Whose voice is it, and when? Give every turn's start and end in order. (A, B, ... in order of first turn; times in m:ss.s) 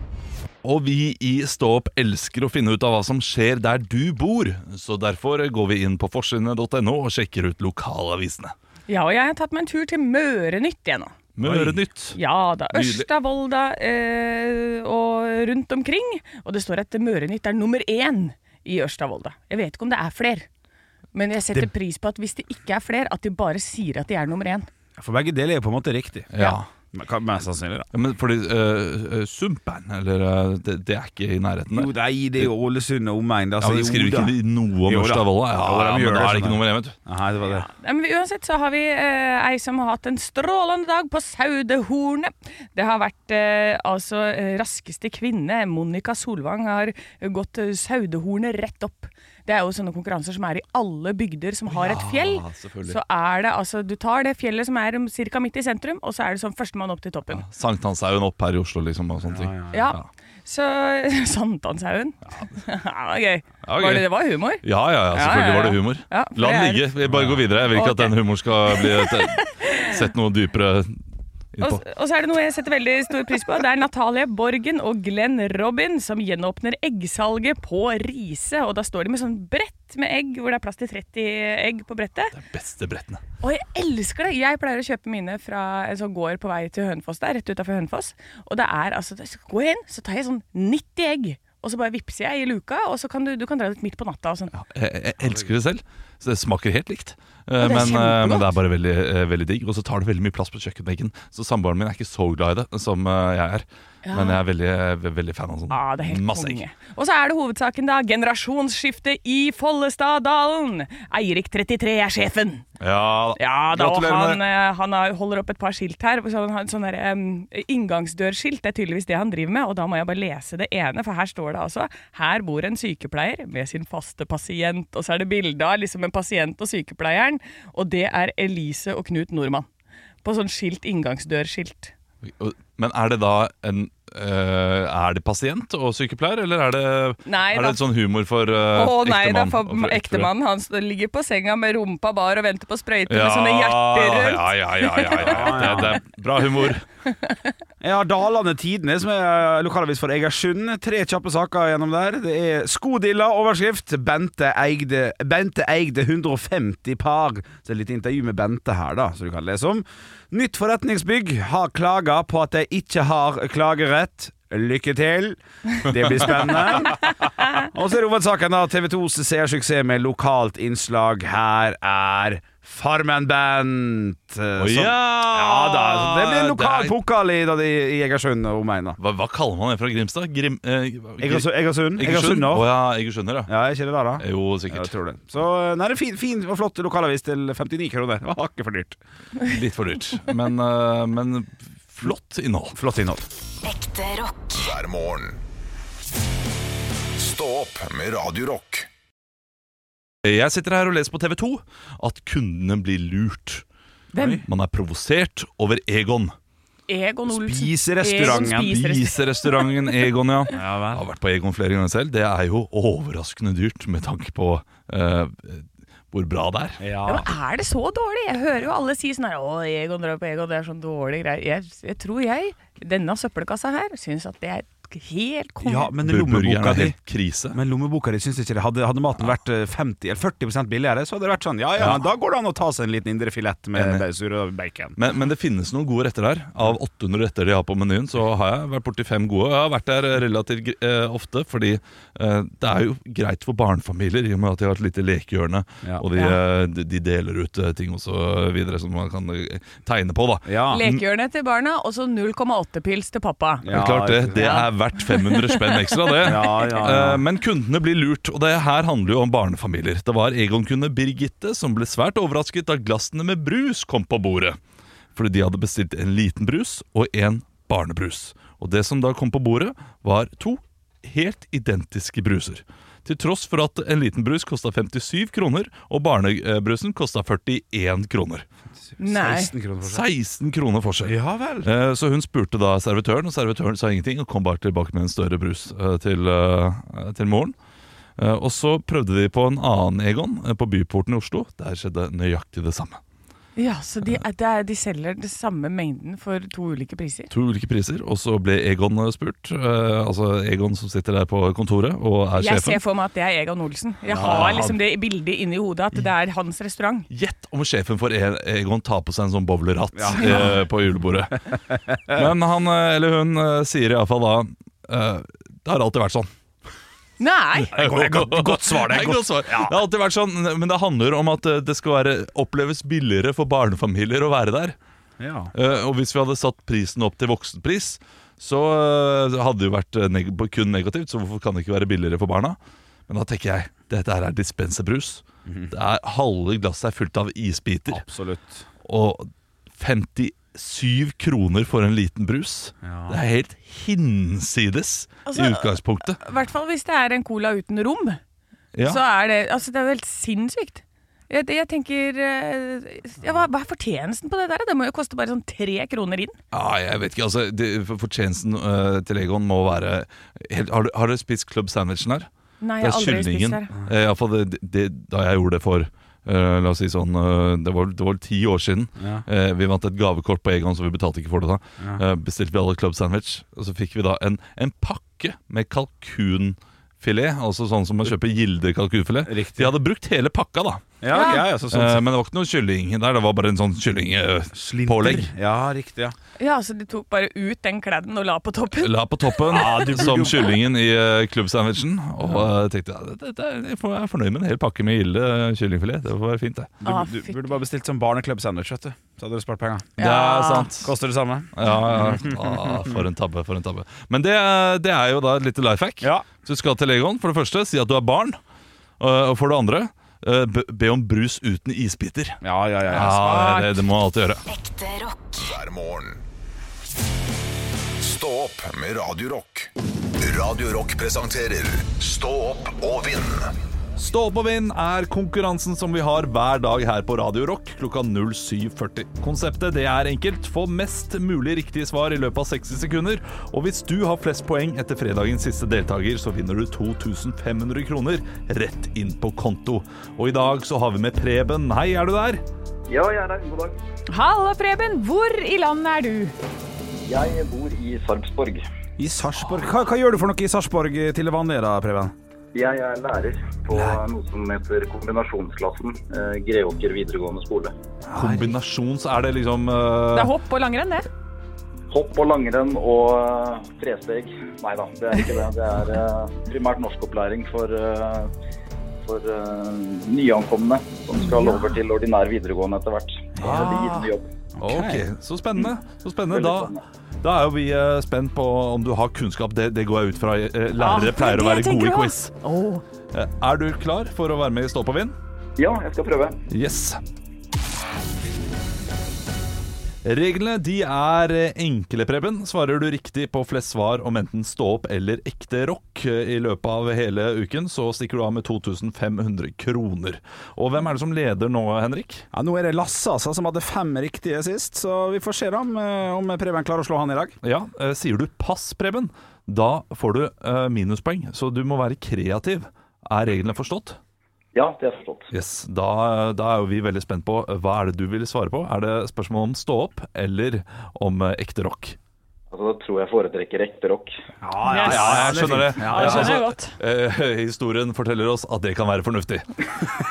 0:00.6-0:08.5 A
0:08.9-0:11.2 B
0:11.4-0:12.2 A
0:11.4-0:11.8 C
0:12.1-0:20.5 B
0:12.7-0:13.1 A
0:21.1-0:24.7 B
0:25.0-0:26.3 C
0:26.3-0:26.7 A
0:26.9-0:27.9 C
0:27.9-0:32.5 A
0:31.7-0:37.7 C
0:33.6-0:37.0 A
0:37.5-0:57.4 B
0:51.7-0:53.0 A
0:57.3-1:00.0 A
0:59.2-0:59.9 C
0:59.7-1:06.9 B
1:03.6-1:04.1 A
1:04.6-1:11.0 A
1:07.0-1:07.4 C
1:07.7-1:10.0 B
1:11.5-1:11.8 A
1:11.6-1:22.4 B
1:22.3-1:23.2 A
1:23.4-1:34.5 B
1:34.5-1:46.6 A
1:37.6-1:38.6 B
1:44.0-1:44.4 B
1:45.7-1:52.6 B
1:52.8-1:54.4 A
1:53.4-2:09.7 B
2:10.2-2:11.9 B
2:12.3-2:20.3 A
2:17.2-2:17.8 B
2:18.7-2:26.0 B
2:23.1-2:26.8 A
2:25.2-2:26.0 C
2:27.1-2:27.5 B
2:27.8-2:59.0 C
2:45.9-2:46.8 A
2:54.6-2:57.0 A
2:59.0-3:03.5 A
3:01.2-3:02.7 C
3:03.5-3:09.0 C
3:04.2-3:05.0 A
3:09.4-3:12.8 A
3:12.7-3:13.3 C
3:13.7-3:15.4 D
3:17.2-3:18.9 D
3:20.2-3:23.6 A
3:24.1-3:24.4 B
3:24.1-3:24.5 C
3:24.4-3:26.3 A
3:26.9-3:29.7 B
3:27.3-3:28.7 C
3:28.2-3:36.8 A
3:30.5-3:31.0 C
3:36.8-3:37.3 C
3:37.1-3:45.9 B
3:45.6-3:47.0 C
3:46.0-3:47.6 A
3:47.5-3:55.0 C
3:51.8-3:52.0 A
3:53.8-3:54.0 A
3:55.0-4:11.0 A
4:10.5-4:10.8 C
4:10.7-4:13.7 B
4:13.6-4:14.7 C
4:13.7-4:24.6 A
4:14.4-4:16.7 B
4:16.2-4:17.2 C
4:25.2-4:38.5 A
4:38.8-4:40.0 C
4:39.0-4:39.5 B
4:39.8-4:47.6 A
4:41.0-4:41.7 C
4:48.2-4:53.0 A
4:53.6-4:57.3 B
4:57.3-5:02.8 A
5:02.4-5:07.1 B
5:04.1-5:04.8 C
5:04.2-5:04.8 A
5:07.1-5:11.4 A
5:10.0-5:10.6 C
5:10.2-5:10.5 B
5:11.5-5:12.3 C
5:12.1-5:16.3 A
5:17.2-5:17.8 B
5:17.7-5:24.8 A
5:17.7-5:19.8 C
5:25.2-5:25.5 C
5:25.5-5:32.6 A
5:33.1-5:38.0 A
5:35.5-5:35.7 C
5:37.9-5:38.6 C
5:38.8-5:46.2 A
5:42.8-5:43.2 C
5:45.3-5:48.2 B
5:48.7-5:49.0 A
5:48.8-5:56.4 B
5:56.5-6:02.3 A
6:02.6-6:03.7 B
6:02.8-6:21.0 A
6:09.0-6:09.2 C
6:19.2-6:19.7 C
6:21.0-6:22.0 C
6:21.1-6:21.5 B
6:21.7-6:25.3 A
6:24.5-6:26.2 C
6:26.4-6:29.9 B
6:28.8-6:36.7 A
6:29.5-6:30.5 C
6:32.2-6:32.5 C
6:36.8-6:39.9 C
6:36.8-6:37.5 B
6:40.0-6:40.7 B
6:40.0-6:40.9 A
6:40.8-6:43.0 C
6:41.5-6:48.4 A
6:46.0-6:46.3 C
6:49.0-6:54.4 A
6:52.4-6:53.2 C
6:52.9-6:53.8 B
6:54.5-6:56.2 D
6:58.0-7:03.5 D
7:04.0-7:22.4 A
7:22.9-7:23.8 E
7:24.1-7:26.4 B
7:27.1-7:28.6 E
7:29.0-7:32.1 C
7:32.5-7:37.7 E
7:33.7-7:34.0 C
7:38.1-7:38.6 C
7:38.1-7:40.3 A
7:40.1-7:41.1 B
7:41.9-7:48.3 E
7:49.0-7:54.3 E
7:51.2-7:51.8 B
7:53.4-7:53.7 C
7:53.4-8:02.3 A
7:54.6-7:55.1 C
7:56.3-7:56.8 E
8:00.8-8:02.8 B
8:03.1-8:05.2 A
8:05.6-8:06.4 E
8:06.5-8:07.0 A
8:10.0-8:22.2 A
8:22.3-8:27.4 C
8:27.4-8:34.0 A
8:34.5-8:35.3 E
8:35.3-8:42.0 A
8:42.5-8:44.1 E
8:44.4-8:46.4 C
8:44.6-8:46.8 B
8:44.8-8:49.7 A